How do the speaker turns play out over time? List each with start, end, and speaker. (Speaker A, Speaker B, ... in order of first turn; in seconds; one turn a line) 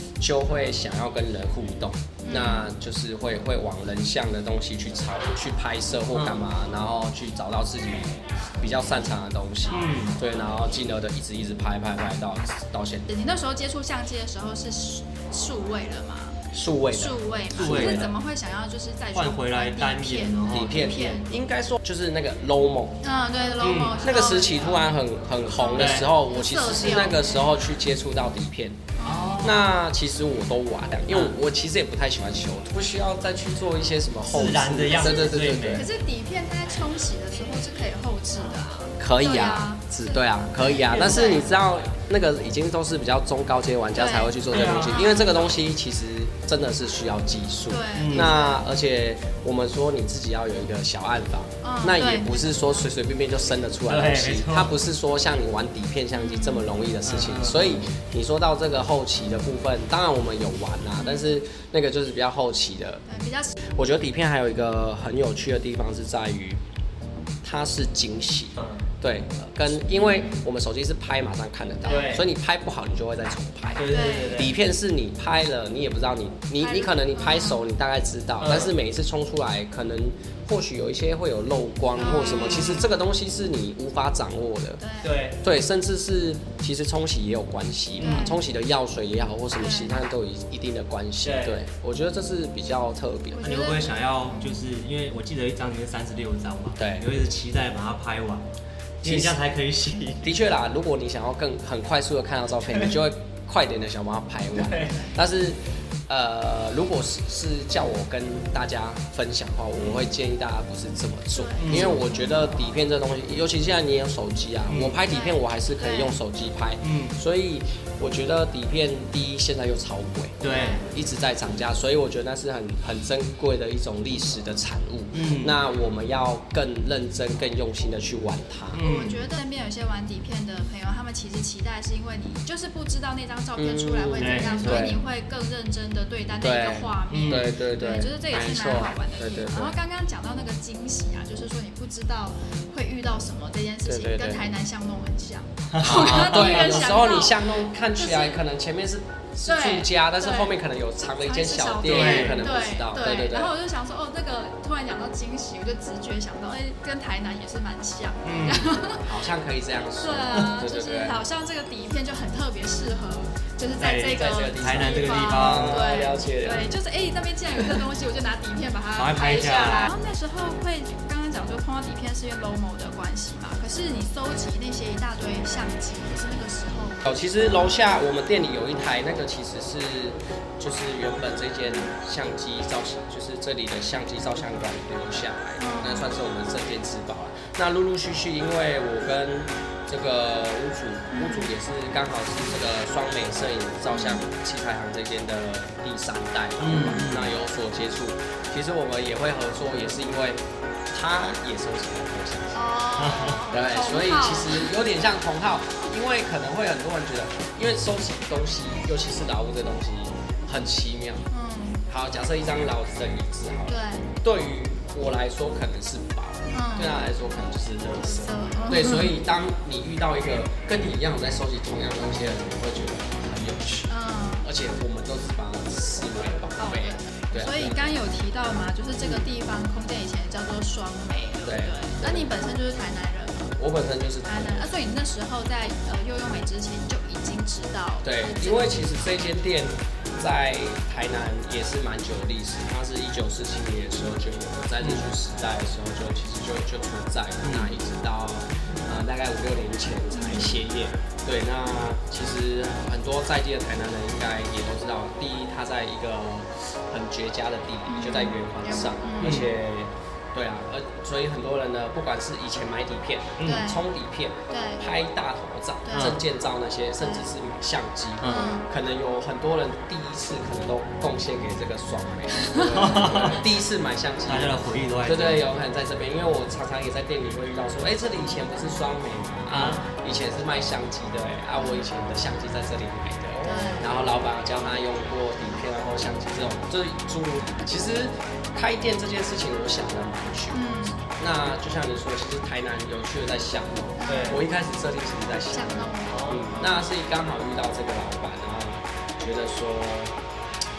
Speaker A: 0.2-13.1
Speaker B: 2.2-2.6
Speaker C: 6.1-6.5
Speaker C: 9.7-10.2
Speaker B: 13.1-16.4
Speaker A: 16.5-18.1
Speaker B: 16.9-21.3
Speaker C: 17.6-18.1
Speaker C: 19.1-21.2
Speaker A: 20.5-23.1
Speaker B: 23.0-24.9
Speaker C: 23.6-24.0
Speaker A: 24.0-35.9
Speaker B: 25.5-27.5
Speaker C: 25.8-26.1
Speaker B: 29.0-29.5
Speaker C: 29.0-29.6
Speaker C: 34.3-35.9
Speaker B: 35.7-41.5
Speaker A: 39.0-63.0
Speaker C: 40.9-41.3
Speaker B: 44.0-45.4
Speaker C: 44.5-45.0
Speaker B: 47.7-48.6
Speaker C: 48.0-48.3
Speaker B: 51.6-52.4
Speaker C: 53.9-54.7
Speaker B: 56.1-56.7
Speaker C: 57.0-57.8
Speaker B: 63.1-63.5
Speaker A: 63.8-66.6
Speaker A: 67.4-84.8
Speaker C: 68.6-68.8
Speaker B: 69.9-70.4
Speaker B: 71.9-72.2
Speaker C: 71.9-72.3
Speaker C: 73.8-74.5
Speaker B: 73.9-74.5
Speaker B: 76.6-77.6
Speaker C: 78.4-78.7
Speaker C: 82.0-82.8
Speaker B: 82.0-82.8
Speaker B: 84.8-85.1
Speaker C: 85.0-85.4
Speaker A: 85.4-93.4
Speaker C: 88.0-88.3
Speaker B: 88.0-88.4
Speaker B: 89.6-90.0
Speaker C: 91.2-91.6
Speaker B: 93.3-94.6
Speaker C: 93.4-98.5
Speaker A: 96.8-97.0
Speaker C: 99.0-100.3
Speaker A: 99.0-99.3
Speaker A: 100.2-128.8
Speaker C: 104.5-105.0
Speaker C: 109.8-110.1
Speaker B: 111.3-112.2
Speaker C: 111.6-112.0
Speaker C: 114.7-115.0
Speaker B: 115.1-116.2
Speaker C: 116.8-117.2
Speaker C: 120.4-120.8
Speaker B: 120.5-120.8
Speaker C: 125.1-125.5
Speaker C: 128.7-129.2
Speaker B: 128.8-148.4
Speaker A: 133.6-135.0
Speaker C: 134.2-134.9
Speaker A: 136.4-139.8
Speaker C: 137.1-137.5
Speaker A: 143.8-144.4
Speaker C: 145.7-146.8
Speaker A: 145.8-153.6
Speaker B: 149.5-150.5
Speaker B: 151.1-159.1
Speaker C: 151.8-152.4
Speaker C: 158.2-158.7
Speaker A: 158.5-161.2
Speaker B: 160.0-177.1
Speaker C: 163.8-165.9
Speaker A: 164.1-166.7
Speaker C: 168.9-169.9
Speaker A: 177.0-202.6
Speaker B: 185.6-186.1
Speaker B: 191.1-191.5
Speaker B: 193.9-194.2
Speaker C: 196.6-197.3
Speaker B: 196.7-197.1
Speaker B: 202.5-204.7
Speaker C: 203.0-203.4
Speaker A: 203.5-211.3
Speaker B: 211.3-211.8
Speaker A: 211.9-223.9
Speaker B: 213.7-214.1
Speaker B: 216.5-217.0
Speaker B: 218.0-219.1
Speaker B: 223.9-224.5
Speaker A: 224.4-227.9
Speaker B: 226.6-233.6
Speaker A: 229.0-229.3
Speaker A: 231.4-232.3
Speaker A: 233.6-234.7
Speaker B: 234.2-238.8
Speaker A: 238.0-300.2
Speaker C: 244.8-245.1
Speaker C: 247.4-247.7
Speaker B: 250.1-250.6
Speaker B: 257.9-259.4
Speaker C: 259.2-259.5
Speaker C: 263.4-263.7
Speaker B: 263.4-263.8
Speaker B: 264.5-264.8
Speaker B: 265.9-266.2
Speaker C: 265.9-266.2
Speaker B: 267.0-267.3
Speaker C: 268.2-268.5
Speaker B: 268.2-268.7
Speaker B: 272.3-272.7
Speaker C: 272.6-273.4
Speaker C: 274.3-275.4
Speaker C: 279.5-279.9
Speaker B: 281.6-281.8
Speaker B: 283.4-283.9
Speaker B: 290.5-291.0
Speaker B: 294.0-294.4
Speaker C: 294.1-294.4
Speaker B: 295.5-296.8
Speaker C: 296.1-296.6